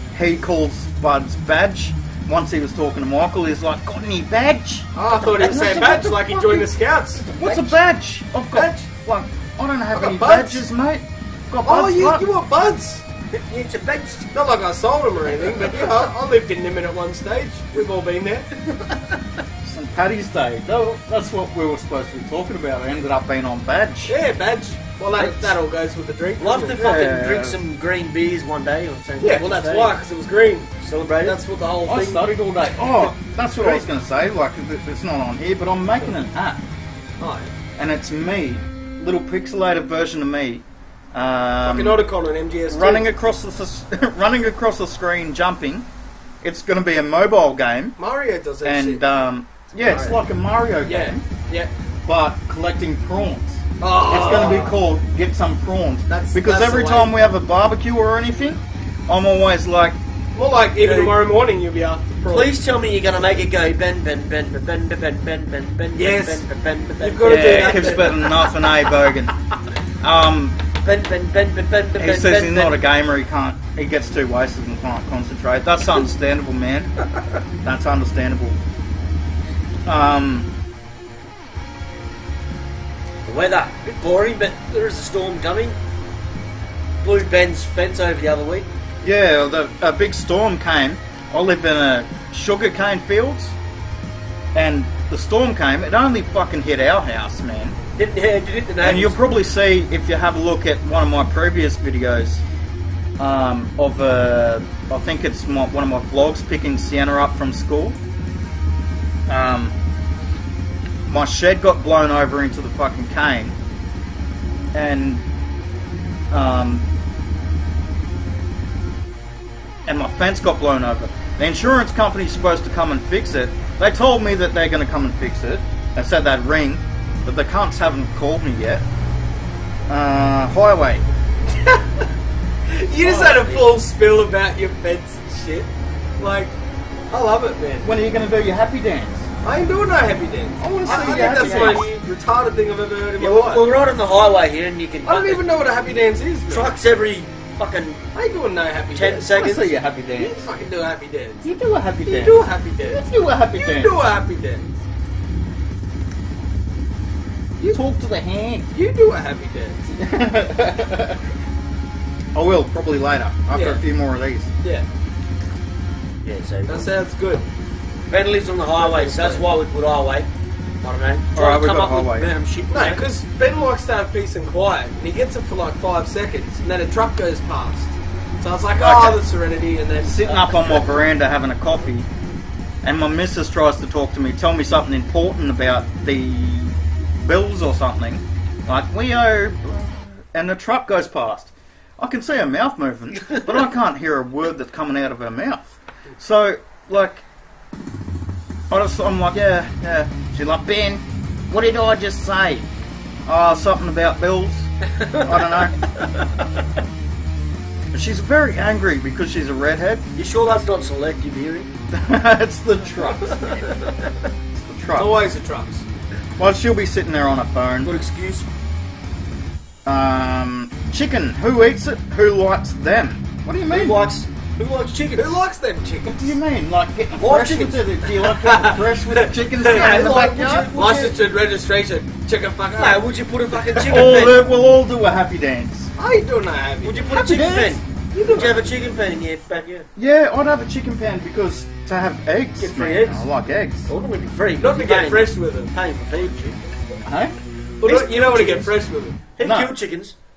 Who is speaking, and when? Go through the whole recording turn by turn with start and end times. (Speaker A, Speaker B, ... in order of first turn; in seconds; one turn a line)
Speaker A: 0.1-4.9
Speaker B: 4.9-7.2
Speaker C: 5.1-6.5
Speaker A: 5.4-6.6
Speaker C: 7.2-7.7
Speaker A: 7.3-12.2
Speaker B: 8.5-8.8
Speaker B: 9.9-10.6
Speaker B: 11.6-13.0
Speaker C: 13.3-14.3
Speaker B: 14.3-18.6
Speaker A: 19.6-24.1
Speaker B: 24.1-26.8
Speaker C: 25.1-25.6
Speaker C: 26.4-30.0
Speaker A: 26.8-27.6
Speaker B: 29.2-30.7
Speaker C: 30.8-31.4
Speaker B: 31.2-33.8
Speaker A: 31.8-36.6
Speaker B: 37.2-37.5
Speaker A: 37.8-42.0
Speaker B: 41.6-43.1
Speaker A: 42.7-45.9
Speaker A: 46.4-47.9
Speaker B: 48.0-49.0
Speaker A: 48.6-51.2
Speaker B: 49.7-50.1
Speaker B: 50.9-51.7
Speaker A: 52.0-60.0
Speaker B: 53.8-54.7
Speaker B: 56.1-57.1
Speaker B: 60.4-62.5
Speaker C: 60.8-61.1
Speaker C: 62.3-68.3
Speaker B: 66.0-66.5
Speaker B: 67.0-68.3
Speaker A: 67.2-69.3
Speaker A: 70.0-70.6
Speaker C: 70.8-72.8
Speaker A: 72.0-76.9
Speaker A: 77.6-78.6
Speaker A: 79.8-80.5
Speaker C: 83.3-85.8
Speaker C: 87.0-88.7
Speaker A: 89.0-93.5
Speaker A: 94.5-97.8
Speaker C: 98.0-99.2
Speaker A: 98.8-102.4
Speaker A: 103.2-108.0
Speaker A: 109.3-109.7
Speaker A: 111.1-113.6
Speaker A: 114.7-115.2
Speaker A: 116.3-116.8
Speaker A: 119.8-128.8
Speaker A: 129.9-131.0
Speaker B: 131.6-132.0
Speaker B: 132.7-135.7
Speaker C: 133.0-133.6
Speaker A: 133.1-133.4
Speaker B: 136.2-136.5
Speaker B: 137.1-137.8
Speaker A: 137.8-139.3
Speaker B: 139.4-143.8
Speaker A: 140.6-141.9
Speaker C: 140.8-141.9
Speaker C: 143.2-145.4
Speaker B: 145.1-146.7
Speaker C: 146.5-148.0
Speaker B: 148.1-149.3
Speaker C: 148.9-149.8
Speaker A: 149.3-150.4
Speaker B: 150.2-151.4
Speaker A: 151.4-153.9
Speaker B: 152.0-154.7
Speaker A: 157.7-158.7
Speaker B: 158.7-159.8
Speaker A: 159.9-161.2
Speaker A: 162.3-164.5
Speaker B: 163.5-163.8
Speaker C: 166.2-166.9
Speaker B: 166.7-167.5
Speaker C: 168.1-170.3
Speaker B: 168.8-169.4
Speaker C: 170.8-173.1
Speaker A: 171.3-172.3
Speaker B: 172.7-180.8
Speaker A: 178.7-179.2
Speaker A: 180.0-182.1
Speaker A: 182.8-197.2
Speaker A: 198.7-202.7
Speaker A: 203.2-205.8
Speaker A: 207.9-210.0
Speaker C: 210.2-211.7
Speaker A: 211.9-213.8
Speaker A: 214.6-215.1
Speaker B: 214.9-215.8
Speaker A: 216.4-217.9
Speaker C: 217.8-218.5
Speaker A: 219.8-224.0
Speaker C: 223.7-225.3
Speaker B: 225.2-226.3
Speaker A: 226.0-230.7
Speaker C: 227.2-227.8
Speaker B: 228.2-234.2
Speaker C: 229.6-231.2
Speaker C: 232.8-234.4
Speaker A: 233.8-235.9
Speaker B: 236.0-237.4
Speaker C: 236.8-239.9
Speaker A: 237.1-237.8
Speaker B: 238.1-238.8
Speaker A: 239.9-243.9
Speaker C: 242.6-243.3
Speaker C: 243.9-246.6
Speaker B: 244.6-245.7
Speaker A: 247.0-247.4
Speaker B: 247.8-249.2
Speaker C: 247.8-248.7
Speaker C: 249.3-250.1
Speaker A: 249.4-249.8